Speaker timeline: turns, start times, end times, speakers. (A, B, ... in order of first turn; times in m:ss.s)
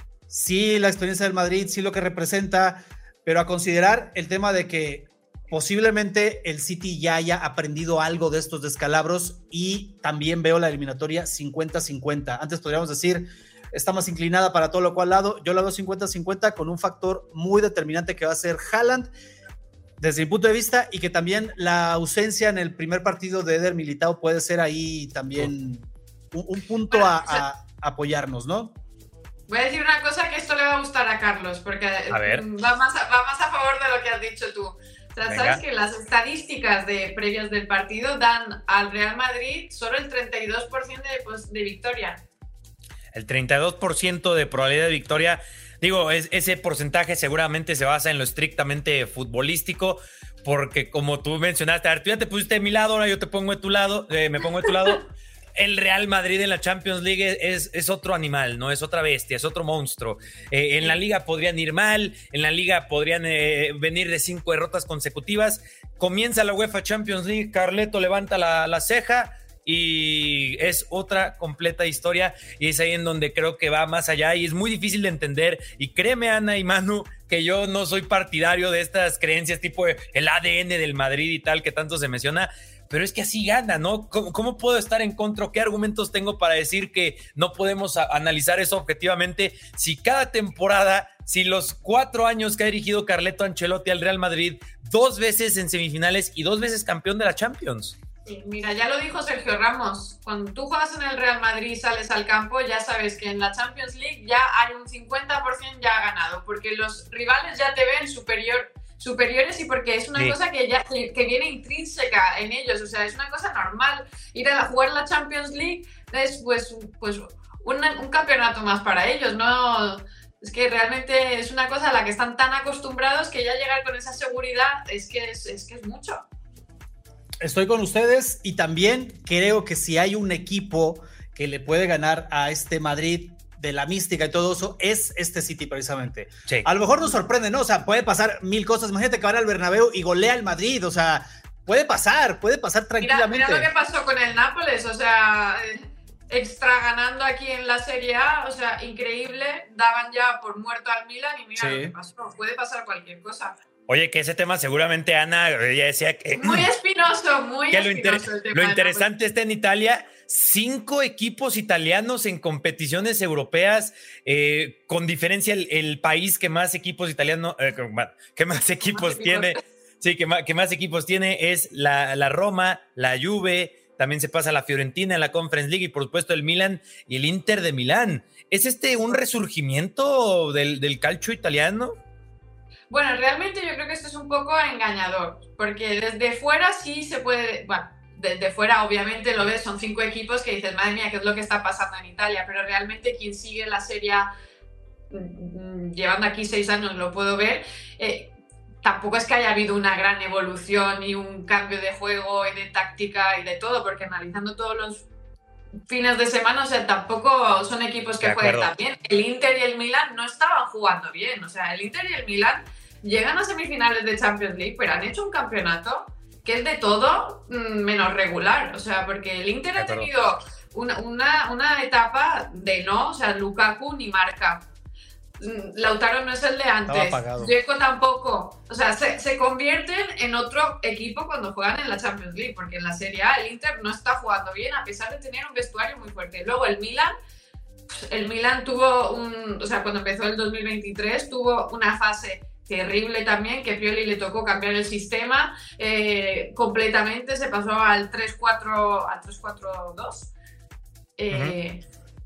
0:00.3-0:19.1 A
0:20.0-0:28.8 A
0:26.9-0:27.4 B
0:29.5-0:42.2 B
0:32.1-0:32.5 C
0:35.2-0:35.6 C
0:43.1-1:37.9 C
1:38.2-2:06.2 B
2:07.4-2:23.7 A
2:23.0-2:33.6 B
2:31.6-2:31.9 A
2:33.9-2:36.7 C
2:36.4-2:39.1 B
2:37.7-3:02.0 C
2:48.9-2:49.6 B
3:02.9-3:14.3 B
3:15.1-3:25.1 B
3:25.9-3:44.6 B
3:28.2-3:28.7 C
3:39.8-3:40.1 C
3:45.4-3:57.1 B
3:46.9-3:47.5 A
3:57.9-4:10.3 B
4:11.2-4:11.8 B
4:11.3-4:11.6 C